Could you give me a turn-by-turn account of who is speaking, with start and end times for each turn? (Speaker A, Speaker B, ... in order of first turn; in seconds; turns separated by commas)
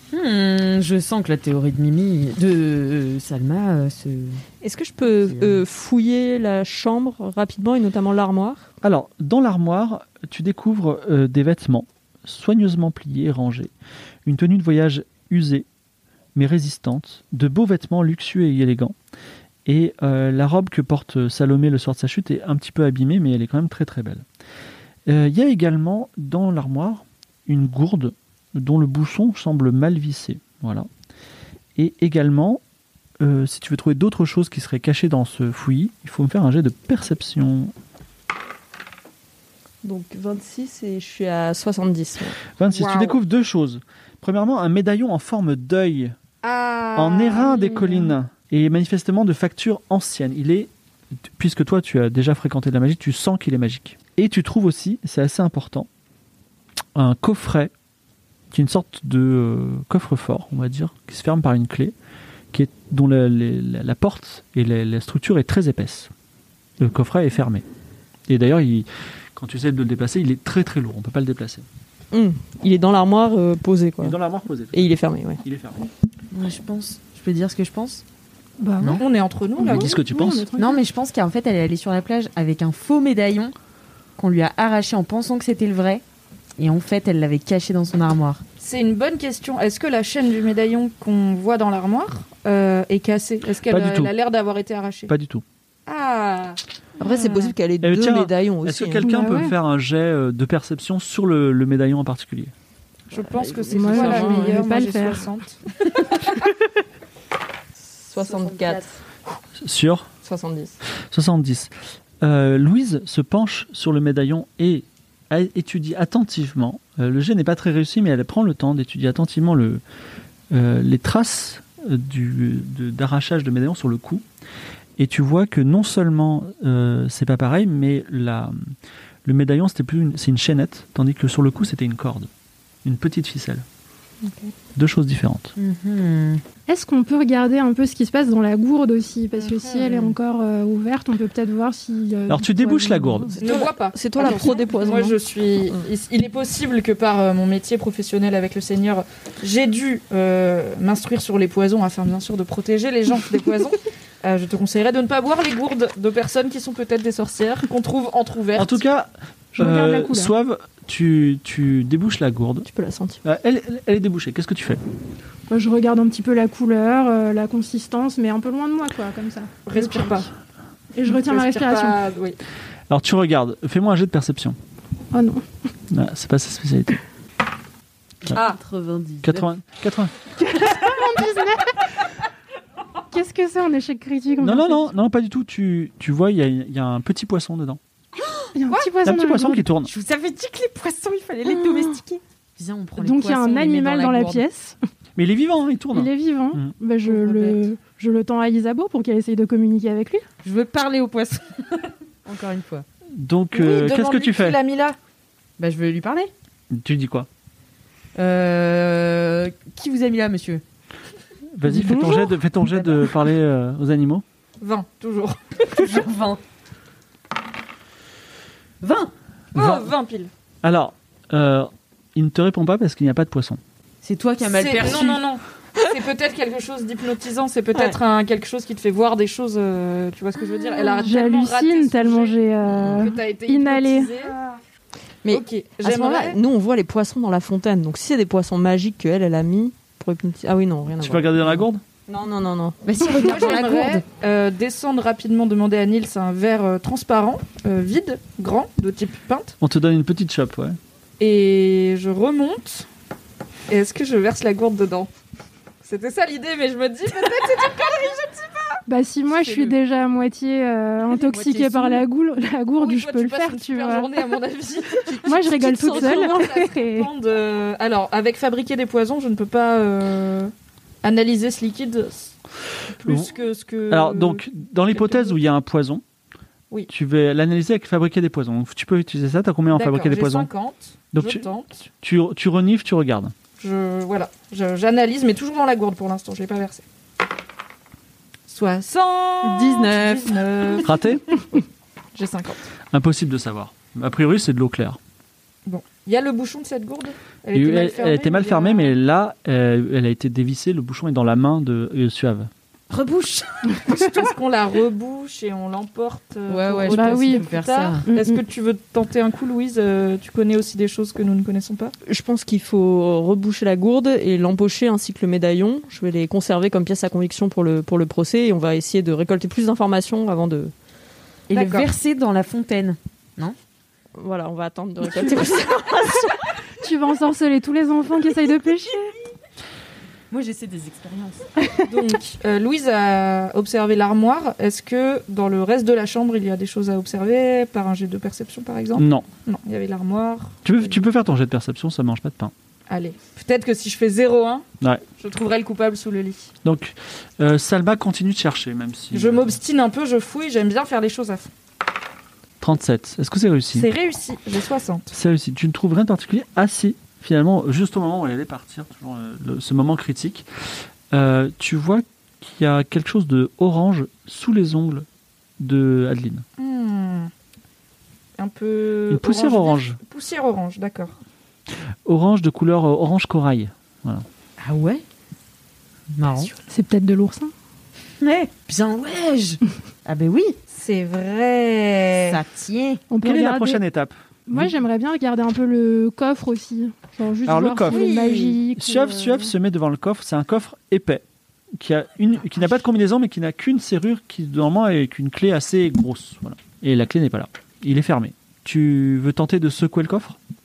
Speaker A: 0.1-4.4, Speaker B: 4.6-8.7, Speaker A: 5.2-5.6, Speaker C: 8.8-13.7, Speaker C: 14.3-15.7, Speaker C: 16.4-18.9, Speaker C: 19.7-24.2, Speaker C: 25.1-30.9, Speaker C: 31.8-32.6, Speaker C: 33.2-37.7, Speaker B: 39.8-42.4, Speaker C: 42.6-46.1, Speaker D: 42.7-43.2, Speaker D: 46.4-48.1, Speaker C: 47.0-50.7, Speaker C: 51.4-55.9, Speaker C: 57.0-57.7, Speaker C: 58.5-61.9, Speaker C: 62.5-66.1, Speaker C: 66.8-67.6, Speaker C: 68.3-71.6, Speaker B: 72.1-74.2, Speaker C: 74.0-75.9, Speaker B: 74.7-75.4, Speaker A: 76.3-78.0, Speaker E: 78.6-79.0, Speaker D: 79.0-80.0, Speaker E: 79.6-80.8, Speaker C: 79.6-80.5, Speaker A: 80.6-83.5, Speaker A: 84.2-86.0, Speaker A: 86.6-88.4, Speaker D: 88.6-95.1, Speaker C: 93.7-94.1, Speaker C: 95.1-95.4, Speaker D: 95.9-97.5, Speaker B: 97.0-99.1, Speaker C: 97.8-102.5, Speaker E: 99.0-99.5, Speaker D: 103.1-105.6, Speaker B: 103.1-104.7, Speaker E: 103.7-105.3, Speaker B: 108.1-108.9, Speaker A: 108.2-108.6, Speaker C: 109.6-110.1, Speaker B: 110.2-110.8, Speaker C: 111.1-111.7, Speaker C: 112.2-119.8, Speaker C: 120.5-124.2, Speaker C: 125.0-128.6, Speaker C: 129.2-132.3, Speaker C: 132.8-133.6, Speaker C: 134.8-135.5, Speaker A: 135.6-136.4, Speaker E: 136.7-143.4, Speaker D: 139.4-140.0, Speaker C: 142.3-143.4, Speaker B: 143.4-145.2, Speaker D: 143.4-158.8, Speaker C: 158.6-162.7, Speaker E: 159.6-160.3, Speaker B: 162.6-163.2, Speaker C: 163.2-164.8, Speaker E: 165.5-170.3, Speaker D: 169.7-170.3, Speaker E: 170.9-172.0, Speaker D: 171.1-172.4, Speaker C: 172.9-174.6, Speaker E: 175.1-175.4, Speaker C: 175.9-177.0, Speaker A: 178.2-179.5, Speaker D: 178.3-178.6, Speaker C: 179.2-180.2, Speaker E: 180.4-181.8, Speaker E: 183.1-184.8, Speaker C: 184.4-187.8, Speaker A: 188.2-188.5, Speaker E: 188.6-189.7, Speaker C: 189.0-189.9, Speaker A: 189.8-194.4, Speaker E: 191.5-192.0, Speaker E: 193.0-194.8, Speaker C: 195.2-196.7, Speaker E: 195.9-200.2, Speaker A: 197.1-197.6, Speaker A: 200.4-202.9, Speaker C: 203.2-204.6, Speaker D: 203.5-205.0, Speaker A: 205.6-206.3, Speaker C: 206.7-207.3, Speaker A: 208.2-210.6, Speaker C: 211.6-214.2, Speaker E: 211.7-212.3, Speaker A: 212.7-213.1, Speaker D: 214.6-216.1, Speaker A: 215.7-216.4, Speaker A: 218.8-219.1, Speaker C: 219.6-219.9, Speaker D: 219.6-220.3, Speaker C: 220.6-223.6, Speaker A: 224.0-225.2, Speaker D: 224.5-234.4, Speaker E: 230.9-234.2, Speaker B: 235.2-242.8, Speaker D: 235.3-236.4, Speaker C: 241.0-241.8, Speaker A: 242.8-244.0, Speaker D: 243.2-249.6, Speaker C: 249.6-250.8, Speaker D: 251.2-252.9, Speaker D: 253.7-255.1, Speaker D: 255.8-259.7, Speaker E: 258.9-264.1, Speaker A: 261.1-262.1, Speaker D: 262.8-270.5, Speaker B: 265.1-266.6, Speaker E: 265.2-267.1, Speaker D: 271.0-272.3, Speaker D: 272.9-275.4, Speaker C: 273.0-273.3, Speaker C: 273.9-276.0, Speaker C: 276.9-280.5, Speaker D: 279.7-281.8, Speaker C: 281.1-281.4, Speaker C: 282.0-283.3, Speaker D: 283.6-286.8, Speaker D: 288.5-291.6, Speaker A: 289.4-290.8, Speaker C: 290.8-291.3, Speaker D: 292.1-292.7, Speaker C: 292.9-295.0, Speaker D: 295.7-298.9, Speaker C: 297.5-302.5, Speaker A: 302.9-303.6, Speaker D: 303.9-311.9, Speaker A: 306.5-308.1, Speaker E: 306.9-307.5, Speaker E: 308.1-308.4, Speaker B: 312.0-320.7, Speaker D: 321.5-321.9, Speaker A: 321.5-323.6, Speaker B: 324.1-326.4, Speaker E: 325.0-325.5, Speaker E: 326.8-329.1, Speaker A: 330.3-331.5, Speaker E: 331.6-331.9, Speaker D: 331.9-341.0, Speaker C: 338.9-339.3, Speaker C: 340.6-342.5, Speaker D: 342.9-344.7, Speaker D: 345.2-346.5, Speaker C: 346.6-349.6, Speaker D: 349.1-351.5, Speaker C: 352.6-353.9, Speaker D: 353.7-355.1, Speaker C: 355.1-360.5, Speaker C: 361.1-365.1, Speaker C: 365.6-366.4, Speaker D: 366.6-367.3, Speaker D: 368.4-371.2, Speaker C: 369.1-370.0, Speaker C: 372.1-374.3, Speaker A: 374.6-375.0, Speaker A: 376.1-376.5, Speaker E: 376.7-377.5, Speaker A: 378.2-380.6, Speaker D: 380.7-382.4, Speaker A: 382.3-383.0, Speaker E: 383.1-383.8, Speaker C: 383.2-384.8, Speaker E: 384.5-389.5, Speaker C: 387.5-388.0, Speaker A: 387.9-388.6, Speaker C: 388.7-391.2, Speaker C: 391.8-400.4